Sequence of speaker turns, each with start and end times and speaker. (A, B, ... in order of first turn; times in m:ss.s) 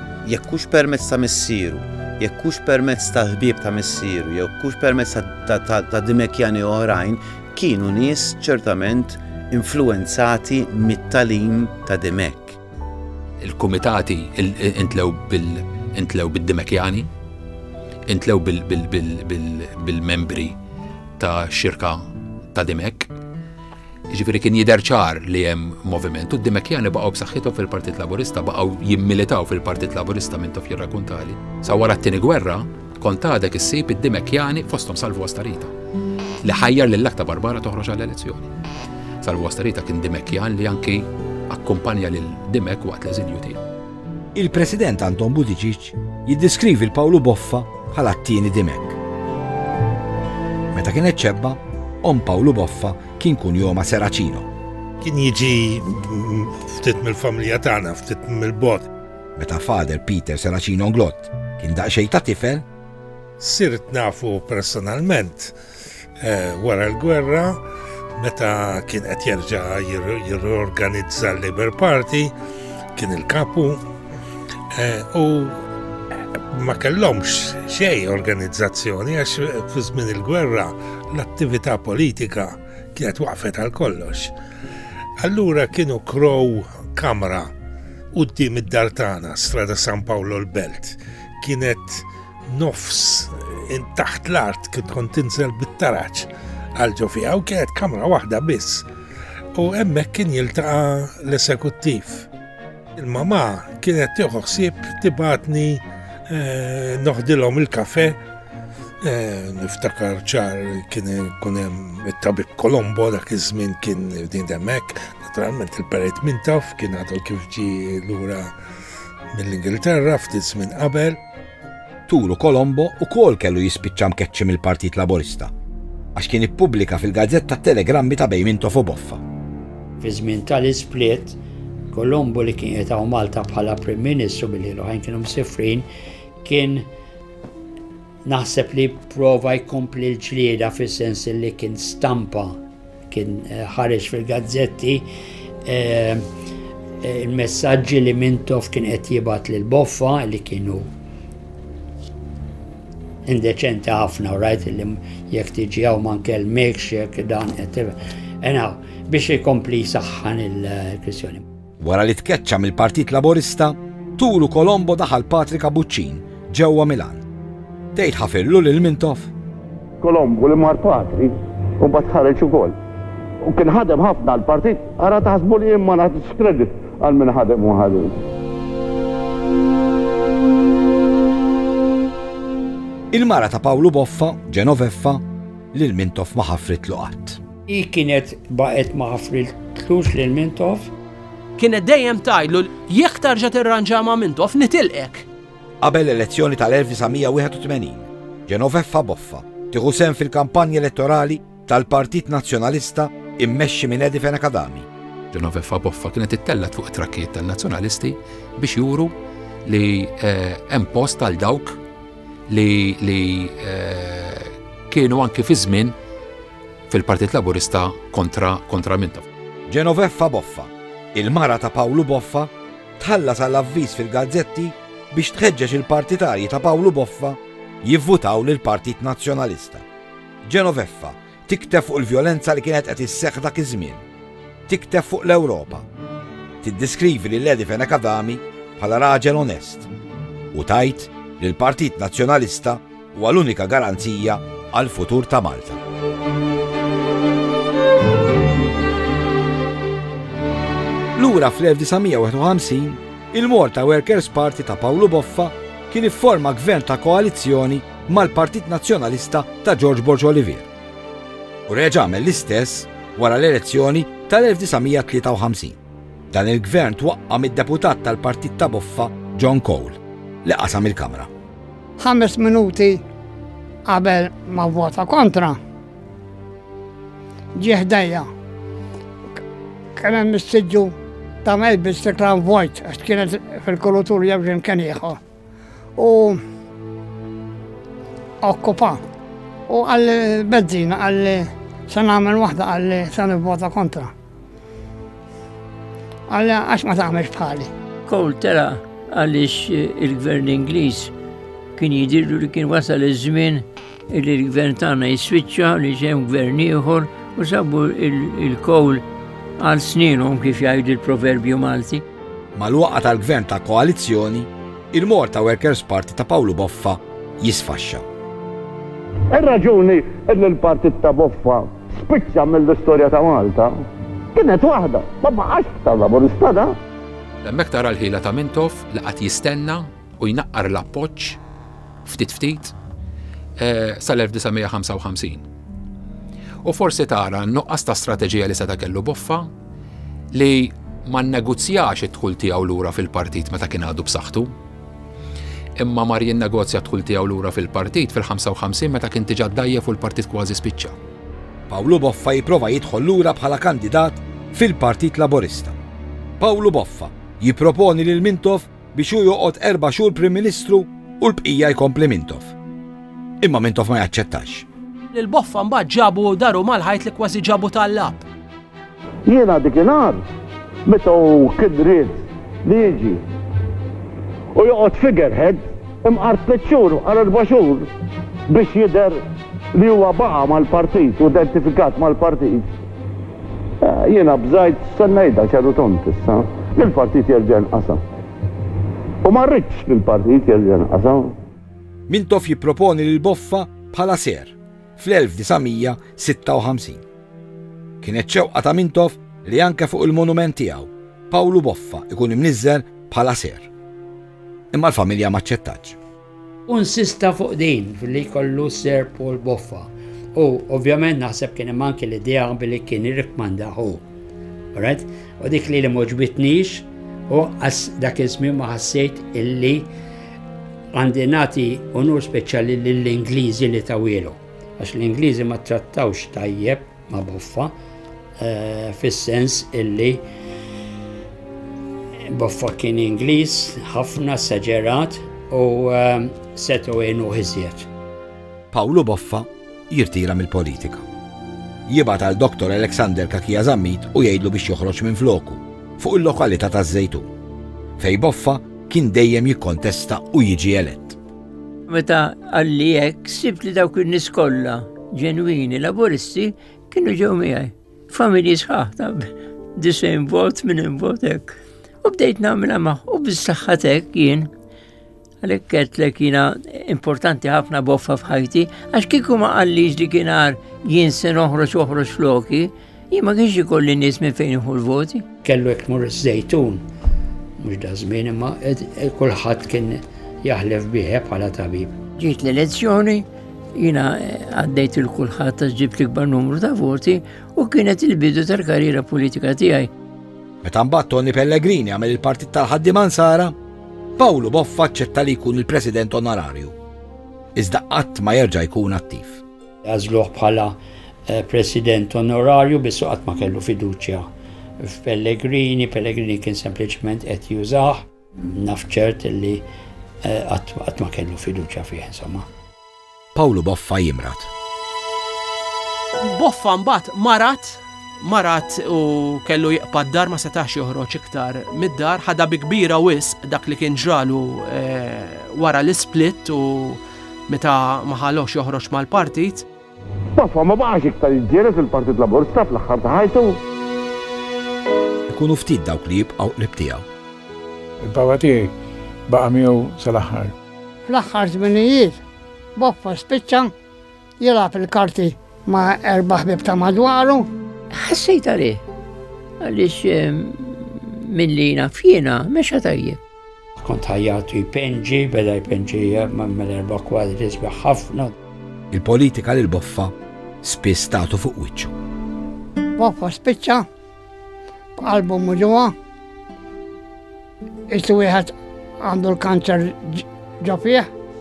0:00.2-0:12.6 A
0:13.4-0:17.1 B
0:18.1-0:20.5 B
0:21.2-0:23.1 B
0:24.1-0:35.7 B
0:36.4-0:38.5 B
0:39.2-0:43.6 B
0:44.3-0:49.0 C
0:50.7-0:54.5 C
0:55.0-0:58.9 D
0:59.4-1:02.6 C
1:03.4-1:05.6 D
1:06.2-1:07.6 D
1:08.1-1:12.3 D
1:12.9-1:13.8 D
1:14.7-1:15.6 D
1:16.5-1:24.3 D
1:25.2-1:27.5 D
1:28.1-1:38.9 D
1:39.5-1:42.3 D
1:43.0-1:48.2 D
1:49.0-1:58.5 D
1:59.3-2:01.2 D
2:02.1-2:05.5 C
2:06.1-2:09.2 C
2:10.0-2:11.4 E
2:11.9-2:15.9 E
2:16.4-2:16.9 E
2:18.2-2:22.6 E
2:23.1-2:25.1 E
2:25.6-2:26.2 E
2:27.0-2:30.9 E
2:33.2-2:41.4 E
2:41.8-2:47.2 C
2:47.9-2:49.3 C
2:50.0-2:52.7 F
2:53.4-2:58.2 F
3:03.1-3:07.4 C
3:07.7-3:10.9 E
3:11.6-3:15.2 G
3:15.8-3:24.9 C
3:25.3-3:29.1 B
3:29.6-3:31.8 B
3:32.5-3:35.9 B
3:36.9-3:39.2 B
3:39.7-3:49.8 C
3:50.4-3:54.0 C
3:54.7-3:55.8 C
3:56.6-3:59.9 C
4:00.5-4:05.8 C
4:11.2-4:20.7 C
4:21.7-4:25.8 C
4:26.3-4:31.3 C
4:32.0-4:33.0 H
4:33.8-4:35.6 H
4:37.5-4:38.3 H
4:40.0-4:45.2 H
4:46.0-4:46.4 H
4:48.4-4:49.0 H
4:49.7-4:54.1 H
4:56.3-4:57.7 H
4:58.0-5:01.1 I
5:01.8-5:09.0 I
5:09.6-5:12.0 I
5:12.6-5:18.0 C
5:19.3-5:23.8 F
5:24.3-5:26.8 F
5:27.4-5:31.4 B
5:32.0-5:32.7 B
5:33.6-5:35.4 B
5:36.6-5:39.5 B
5:40.3-5:44.5 B
5:45.8-5:51.0 B
5:51.7-5:55.8 C
5:56.4-6:02.5 C
6:03.4-6:04.6 C
6:05.1-6:08.2 G
6:09.2-6:10.2 F
6:10.8-6:13.2 F
6:14.5-6:17.9 F
6:18.5-6:19.2 F
6:19.7-6:22.7 F
6:23.8-6:28.0 F
6:29.2-6:31.4 F
6:32.1-6:37.0 C
6:38.0-6:43.7 C
6:44.7-6:46.0 C
6:46.7-6:54.0 E
6:54.7-6:59.9 E
7:00.9-7:07.7 E
7:08.4-7:10.2 E
7:12.3-7:17.9 E
7:18.7-7:21.0 C
7:21.9-7:27.3 C
7:28.0-7:31.2 C
7:31.9-7:44.5 I
7:45.4-7:55.2 I
7:55.4-7:56.8 E
7:57.6-8:02.0 E
8:02.2-8:09.9 I
8:10.6-8:13.5 C
8:14.2-8:16.7 C
8:17.6-8:19.4 C
8:19.8-8:29.6 E
8:30.2-8:32.4 E
8:33.3-8:34.5 C
8:36.2-8:49.6 G
8:50.4-8:53.6 F
8:55.3-8:57.0 C
8:58.0-8:58.7 J
8:59.3-9:00.5 J
9:01.1-9:02.2 H
9:02.8-9:03.7 H
9:04.4-9:07.5 H
9:07.9-9:08.8 I
9:09.6-9:13.2 I
9:13.8-9:18.3 E
9:18.9-9:21.9 C
9:23.0-9:23.8 H
9:25.0-9:25.9 H
9:27.9-9:31.1 H